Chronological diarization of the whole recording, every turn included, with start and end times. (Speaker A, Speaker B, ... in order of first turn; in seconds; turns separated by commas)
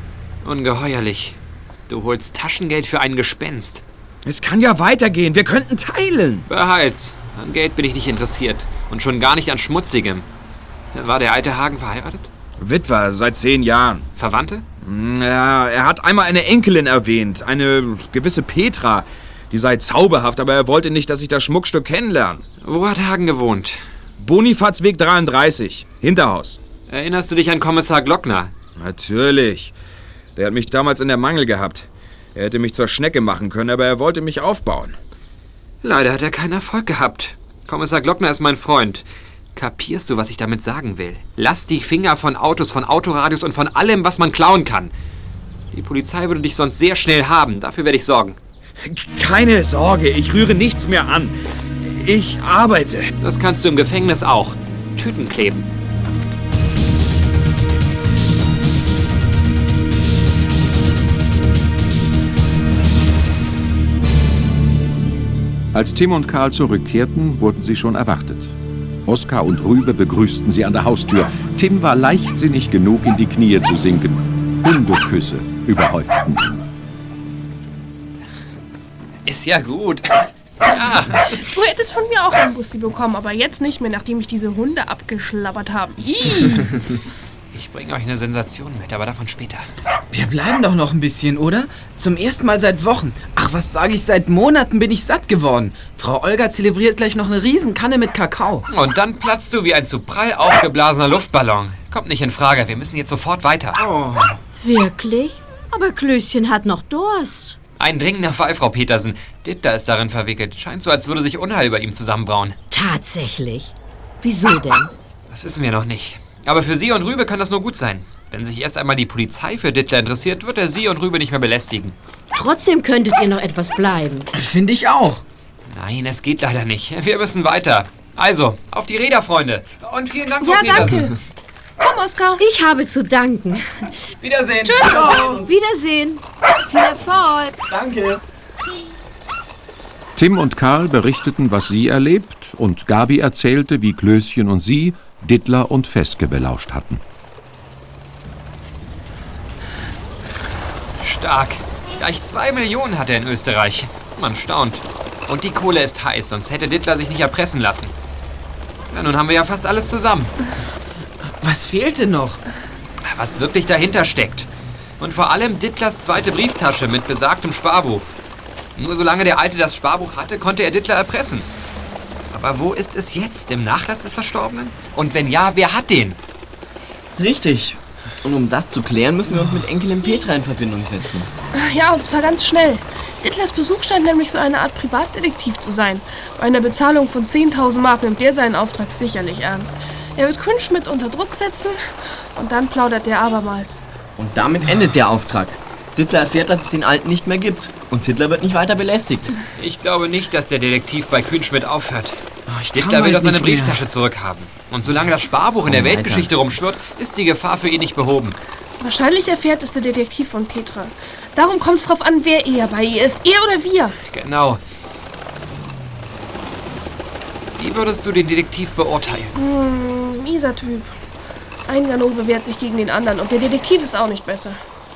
Speaker A: 0.4-1.4, Speaker A: 1.9-3.8, Speaker B: 4.2-6.5, Speaker A: 6.5-10.2, Speaker A: 10.9-12.3, Speaker B: 12.6-14.1, Speaker A: 14.2-14.6, Speaker B: 14.8-22.4, Speaker A: 22.6-23.8, Speaker B: 24.2-26.6, Speaker A: 26.9-28.5, Speaker B: 28.8-29.7, Speaker B: 30.3-34.9, Speaker A: 35.8-44.9, Speaker A: 45.7-48.4, Speaker B: 48.8-53.1, Speaker A: 53.2-55.7, Speaker C: 65.7-76.7, Speaker A: 79.2-81.3, Speaker D: 81.3-86.8, Speaker A: 87.5-89.7, Speaker E: 90.1-98.6, Speaker A: 98.7-103.8, Speaker E: 103.8-104.4, Speaker F: 104.6-107.6, Speaker A: 107.8-112.5, Speaker F: 112.7-114.9, Speaker A: 115.3-122.0, Speaker F: 122.3-124.3, Speaker E: 124.3-125.2, Speaker A: 125.7-131.1, Speaker D: 130.4-131.1, Speaker D: 131.8-132.4, Speaker F: 132.4-133.9, Speaker A: 134.2-135.0, Speaker D: 134.6-135.4, Speaker F: 134.9-137.5, Speaker G: 137.7-138.2, Speaker C: 140.2-147.0, Speaker A: 151.0-157.9, Speaker A: 158.9-160.3, Speaker E: 161.4-162.4, Speaker A: 163.0-168.1, Speaker A: 168.8-171.5, Speaker A: 172.3-176.2, Speaker G: 177.2-181.3, Speaker D: 181.5-191.8, Speaker D: 192.3-193.8, Speaker G: 194.2-199.3, Speaker A: 199.6-208.4, Speaker E: 202.5-203.8, Speaker G: 205.7-206.3, Speaker D: 208.8-213.9, Speaker A: 214.1-214.6, Speaker A: 217.6-219.3, Speaker D: 219.3-220.9, Speaker D: 221.7-224.6